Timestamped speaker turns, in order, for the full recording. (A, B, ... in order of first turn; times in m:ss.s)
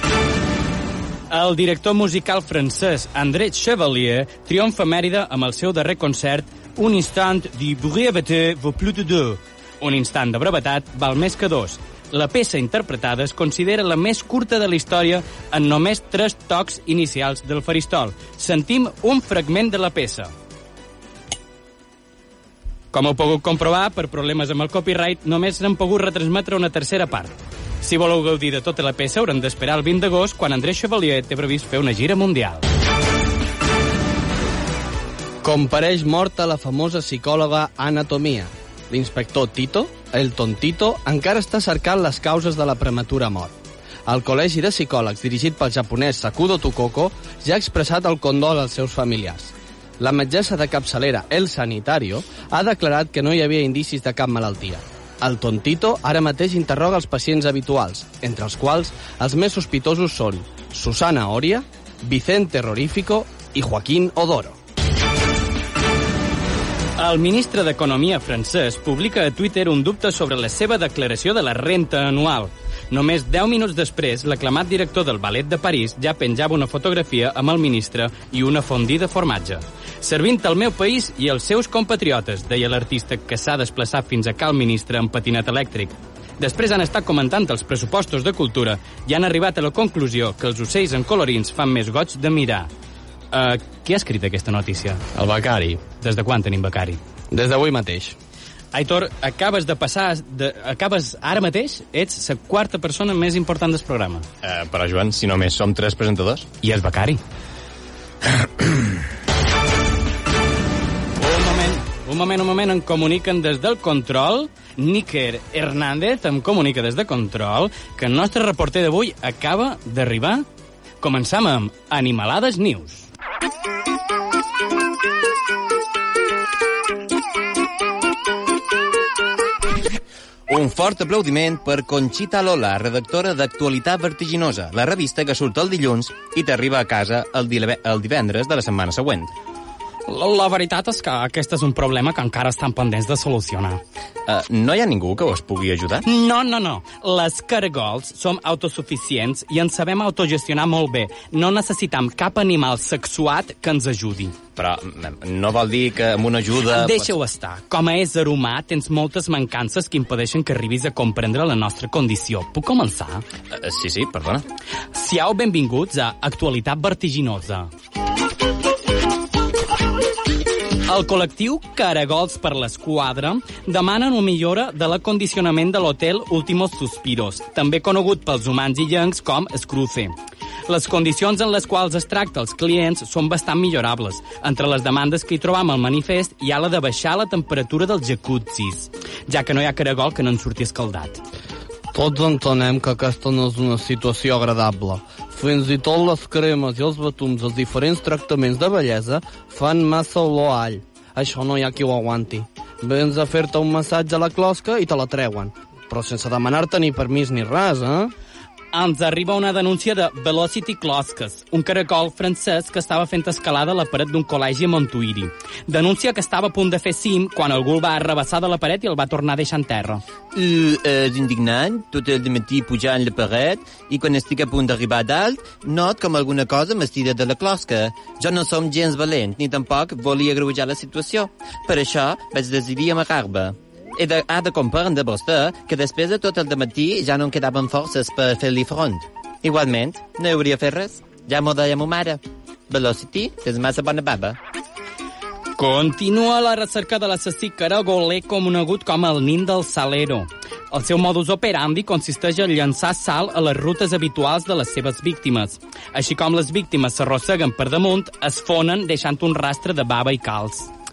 0:01.3-0:20.3 A
0:22.9-0:32.6 A
0:35.4-0:43.5 B
0:44.0-1:04.6 B
1:07.0-1:32.7 A
1:33.3-1:35.0 A
1:35.1-1:35.8 B
1:36.0-1:37.0 A
1:37.3-1:38.2 B
1:38.7-1:44.2 A
1:44.4-1:46.5 C
1:46.6-1:47.2 A
1:48.4-1:48.8 C
1:51.2-2:00.4 A
2:01.0-2:03.1 A
2:10.5-2:19.3 C
2:20.1-2:23.8 A
2:24.2-2:26.0 C
2:26.0-2:34.4 A
2:34.6-2:37.1 C
2:36.7-2:43.2 A
2:43.5-2:44.4 C
2:44.9-2:47.7 A
2:50.9-3:00.1 A
3:00.7-3:11.2 A
3:11.9-3:28.1 B
3:28.7-3:40.0 A
3:40.3-4:04.4 C
4:05.6-4:20.7 A